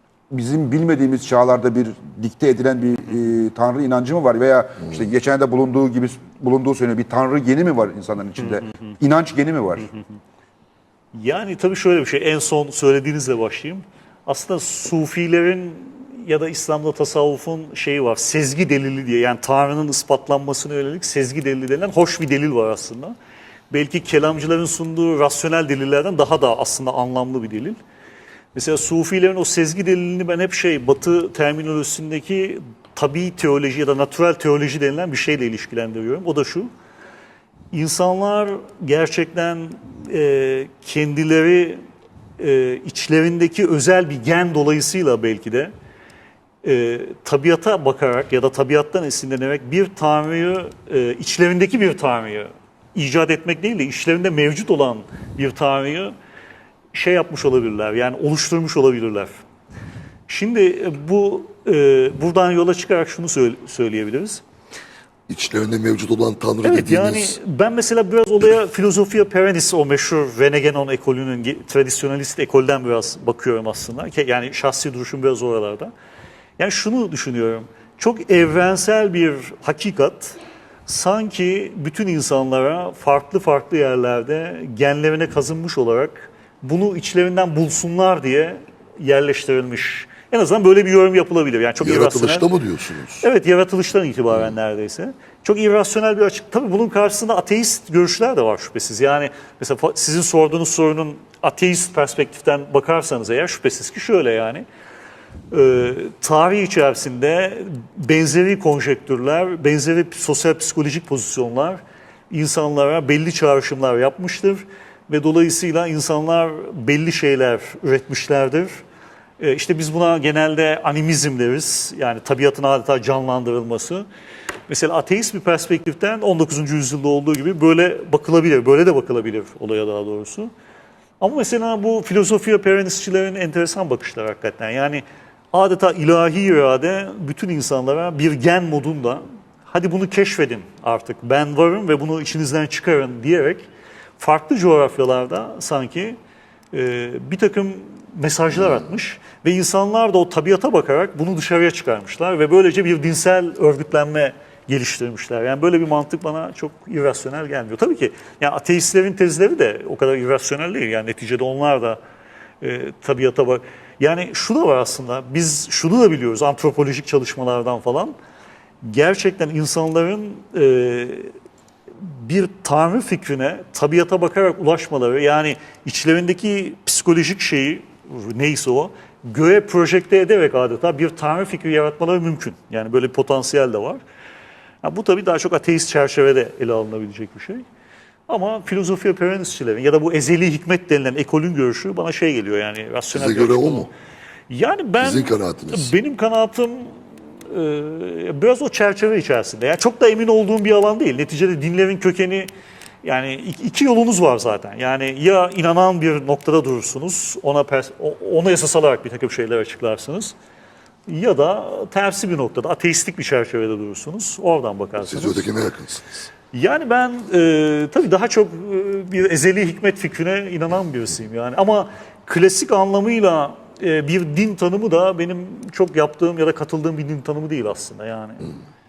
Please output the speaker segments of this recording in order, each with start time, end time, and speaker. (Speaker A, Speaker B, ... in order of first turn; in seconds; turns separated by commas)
Speaker A: 0.3-9.9, Speaker B: 11.2-23.1, Speaker B: 23.7-27.8, Speaker B: 28.6-36.7, Speaker B: 37.7-41.8, Speaker B: 42.4-45.7, Speaker B: 46.6-56.1, Speaker B: 56.9-59.4, Speaker B: 60.3-64.4, Speaker C: 65.3-67.4, Speaker B: 66.6-75.9, Speaker B: 76.6-92.5, Speaker C: 91.8-93.2, Speaker B: 93.2-104.7, Speaker B: 105.5-118.7, Speaker B: 119.4-124.1, Speaker B: 124.7-130.5, Speaker B: 131.2-143.7, Speaker B: 144.2-146.2, Speaker B: 146.7-162.0, Speaker B: 162.6-168.2, Speaker B: 168.8-171.3, Speaker B: 172.0-184.0, Speaker B: 184.8-187.6, Speaker B: 188.3-193.9, Speaker C: 193.1-193.9, Speaker B: 194.5-196.9, Speaker C: 195.0-195.9, Speaker B: 197.5-202.5, Speaker B: 203.0-210.3, Speaker B: 211.1-215.5, Speaker C: 215.1-216.3, Speaker B: 216.5-228.4